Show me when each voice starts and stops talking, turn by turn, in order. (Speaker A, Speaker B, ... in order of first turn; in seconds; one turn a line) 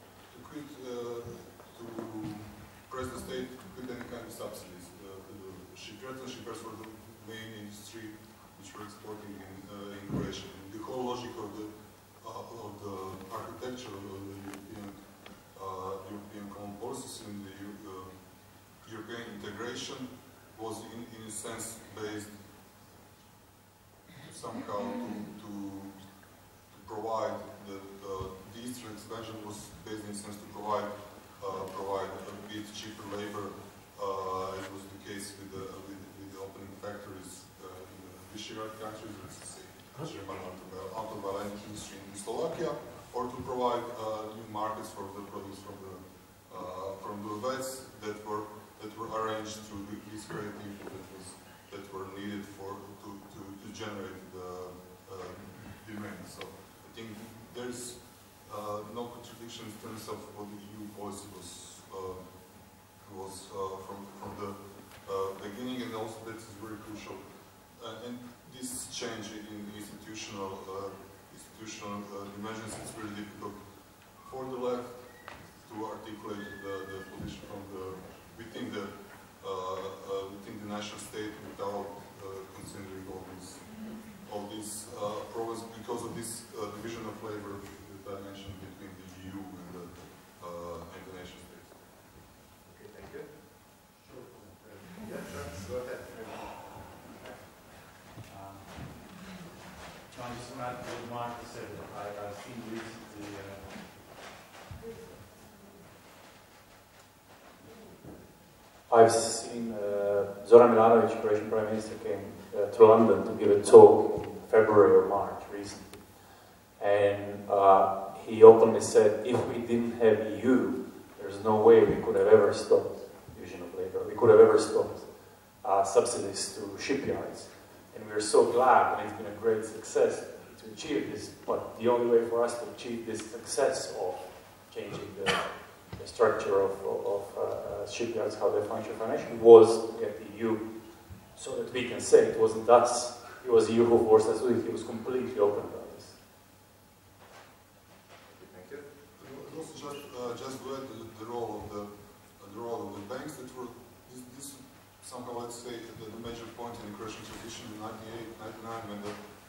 Speaker A: 0.3-22.4
Speaker A: 24.2-91.8
Speaker B: 92.6-93.8
Speaker C: 94.0-94.5
Speaker B: 94.4-97.6
Speaker C: 98.2-99.2
Speaker C: 100.1-103.9
Speaker C: 108.9-146.2
Speaker B: 148.2-148.8
Speaker A: 149.2-159.2